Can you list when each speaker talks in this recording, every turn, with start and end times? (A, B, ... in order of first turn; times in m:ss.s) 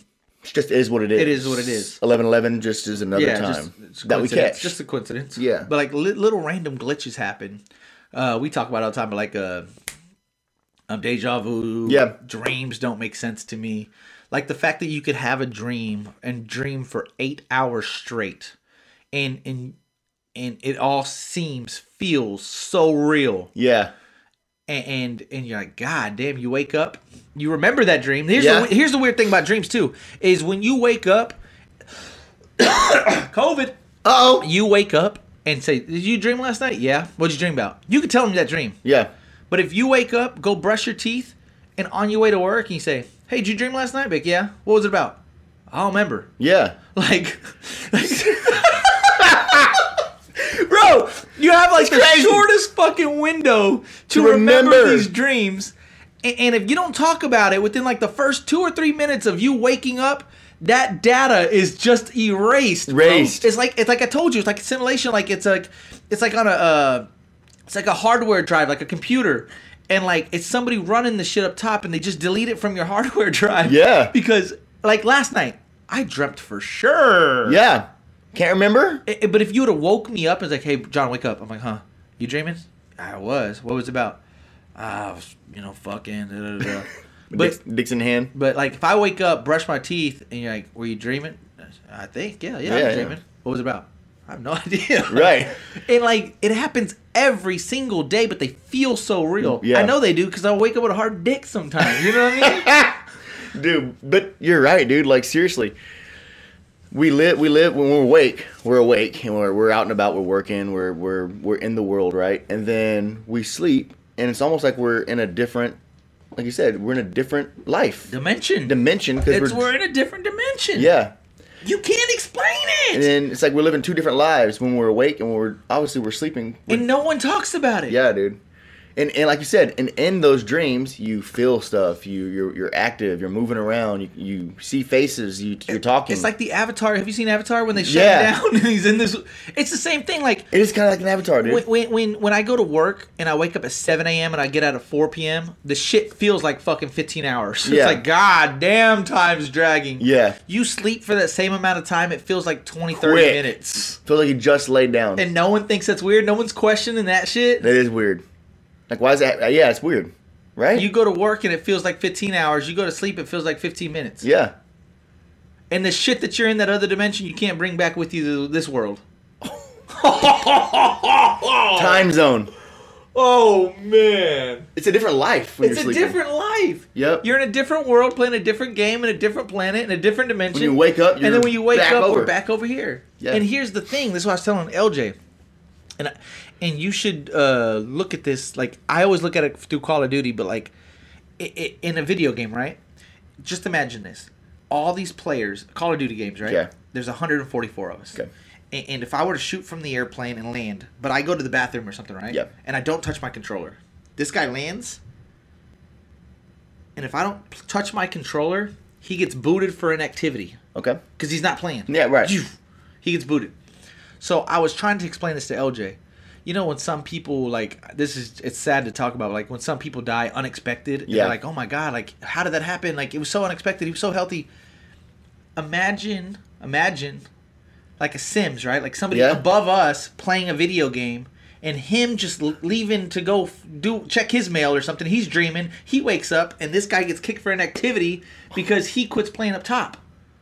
0:00.4-0:04.8 A
0:01.2-0:02.0 B
0:03.1-0:09.6 B
0:05.3-0:05.7 A
0:10.9-0:18.5 B
0:11.8-0:12.1 A
0:19.1-0:19.8 B
0:20.3-0:23.5 B
0:23.5-0:23.9 A
0:24.7-0:31.4 B
0:28.3-0:28.7 A
0:32.6-0:33.7 B
0:34.0-0:34.5 A
0:34.4-0:38.8 B
0:38.8-0:39.1 A
0:39.5-0:45.2 B
0:45.7-0:46.3 B
0:46.4-0:46.8 A
0:46.9-0:49.7 B
0:49.3-0:49.6 A
0:50.4-1:07.1 B
0:51.8-0:52.5 A
0:54.1-0:55.1 A
1:02.9-1:03.5 A
1:07.7-1:17.6 B
1:13.6-1:14.1 A
1:17.4-1:19.0 A
1:19.0-1:24.2 B
1:24.8-1:27.6 B
1:27.3-1:28.3 A
1:28.3-1:42.7 B
1:32.6-1:33.2 A
1:35.1-1:35.6 A
1:39.4-1:39.9 A
1:41.8-1:45.8 A
1:46.9-1:55.8 A
1:56.3-1:58.1 A
1:58.1-2:00.9 B
1:58.6-1:59.7 A
2:00.7-2:01.2 A
2:01.6-2:03.1 B
2:02.9-2:06.9 A
2:06.7-2:08.0 B
2:07.9-2:08.4 A
2:09.0-2:16.3 A
2:15.7-2:20.5 B
2:17.7-2:18.3 A
2:20.5-2:21.6 A
2:21.4-2:34.0 B
2:27.6-2:28.0 A
2:30.0-2:30.4 A
2:32.9-2:35.3 A
2:35.2-2:37.7 B
2:37.6-2:38.2 A
2:38.9-2:40.9 A
2:40.7-2:44.2 B
2:44.2-2:44.5 A
2:45.7-2:49.0 B
2:49.9-2:52.1 B
2:51.8-2:52.5 A
2:53.1-2:54.7 B
2:54.7-2:56.2 A
2:55.6-3:05.2 B
2:56.9-2:57.3 A
3:00.5-3:02.3 A
3:03.2-3:03.4 A
3:06.0-3:10.7 B
3:11.4-3:12.8 B
3:13.4-3:18.2 B
3:16.4-3:16.7 A
3:18.7-3:25.0 B
3:27.0-3:30.6 B
3:30.7-3:31.0 A
3:31.2-3:33.5 B
3:31.9-3:32.3 A
3:34.2-3:44.5 B
3:41.1-3:41.4 A
3:45.6-3:47.3 B
3:48.0-4:00.0 B
3:49.1-3:49.4 A